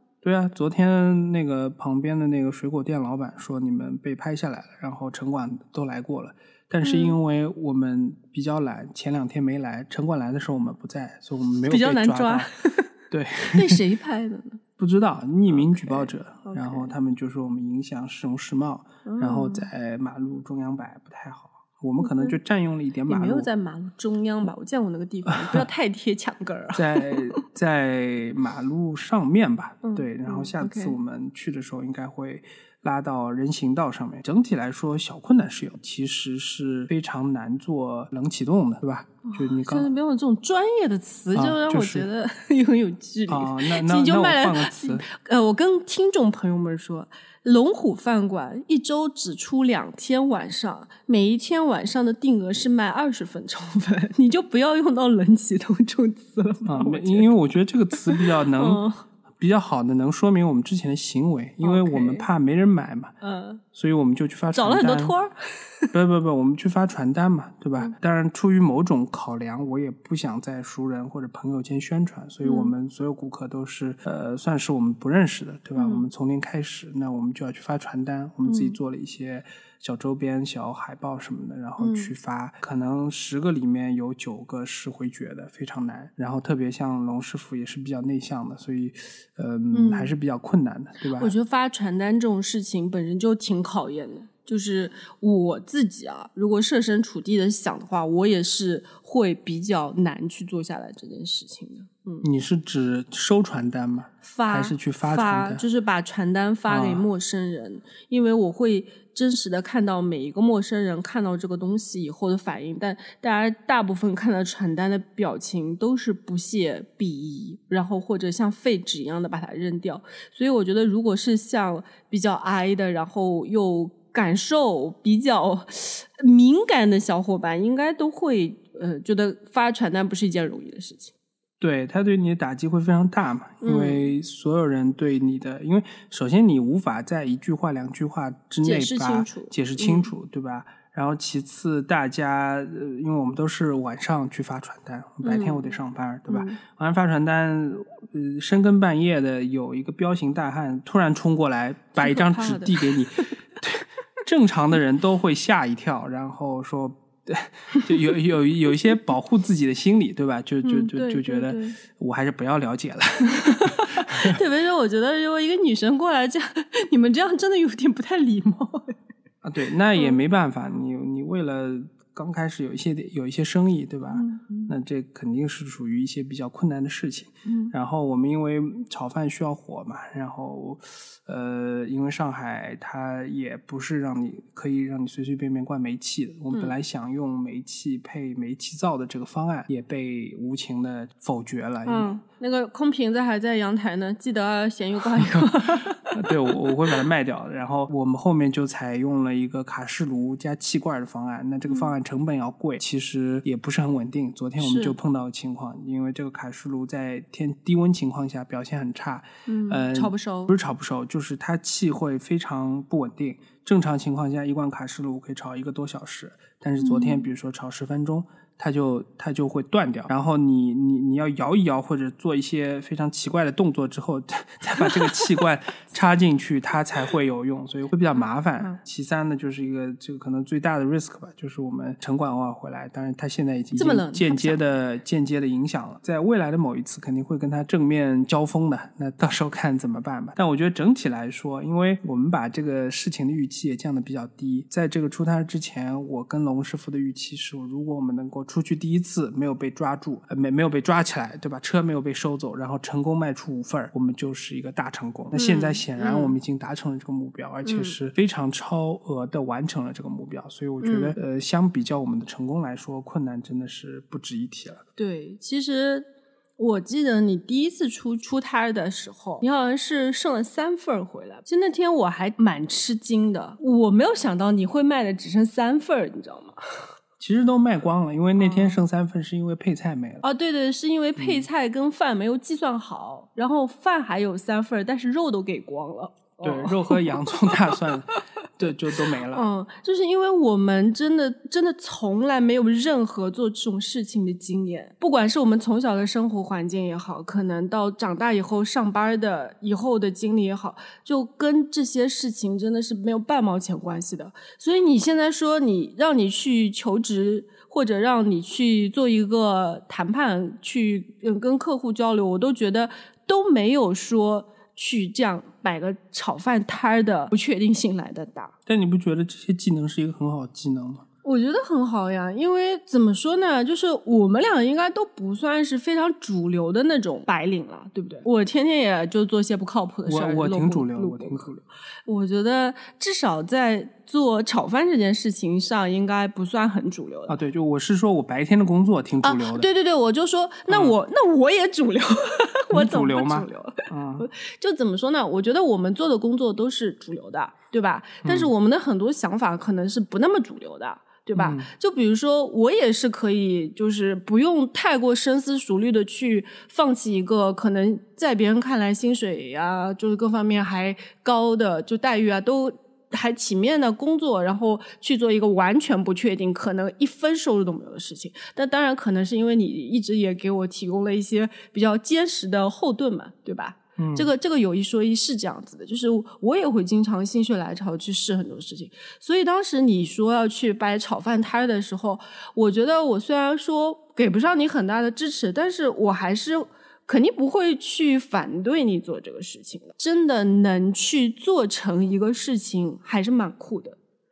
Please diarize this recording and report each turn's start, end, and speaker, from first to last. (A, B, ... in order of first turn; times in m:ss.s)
0:00.2-0:12.5 A
0:06.8-0:07.2 B
0:11.7-0:12.9 B
0:13.1-0:13.8 A
0:13.5-0:14.6 B
0:14.8-0:23.5 A
0:15.5-0:16.9 B
0:19.0-0:19.7 B
0:22.0-0:22.4 B
0:23.1-0:27.4 B
0:25.3-0:25.6 A
0:26.7-0:39.9 A
0:29.8-0:31.0 B
0:39.2-0:57.3 B
0:41.3-0:42.1 A
0:43.3-0:45.0 A
0:56.6-0:58.8 A
0:58.1-0:59.0 B
0:59.4-1:03.1 A
1:01.6-1:02.3 B
1:03.2-1:03.6 B
1:03.7-1:05.1 A
1:04.5-1:05.9 B
1:05.9-1:31.3 A
1:12.4-1:12.7 B
1:15.8-1:16.0 B
1:18.4-1:18.8 B
1:21.8-1:22.1 B
1:29.7-1:30.1 B
1:31.2-1:42.2 B
1:42.2-1:45.6 A
1:44.2-2:11.1 B
1:46.7-1:47.1 A
2:11.6-2:44.4 A
2:13.6-2:14.0 B
2:18.6-2:20.1 B
2:25.2-2:25.7 B
2:26.3-2:26.6 B
2:32.0-2:33.3 B
2:40.6-2:41.8 B
2:43.2-2:49.0 B
2:49.4-3:12.1 A
2:49.9-2:50.2 B
2:54.1-2:54.7 B
2:57.4-2:57.7 B
3:11.8-3:16.3 B
3:15.1-3:15.6 A
3:16.1-4:24.8 A
3:21.7-3:21.9 B
3:24.6-3:25.0 B
3:29.4-3:30.5 B
3:36.8-3:37.3 B
3:44.8-3:45.1 B
3:53.8-3:54.6 B
4:15.3-4:16.4 B
4:17.6-4:17.9 B
4:20.8-4:21.1 B
4:25.0-4:36.6 B
4:37.2-4:40.2 A
4:38.4-4:38.8 B
4:40.2-4:47.1 B
4:41.2-4:41.4 A
4:46.4-4:49.4 A
4:49.0-5:18.5 B
5:18.6-5:21.0 A
5:21.2-5:31.5 B
5:30.1-5:31.6 A
5:32.0-5:37.3 B
5:37.3-5:39.7 A
5:39.2-6:34.0 B
5:40.7-5:41.0 A
5:42.7-5:44.3 A
5:48.2-5:48.5 A
5:51.3-5:51.7 A
6:14.0-6:14.3 A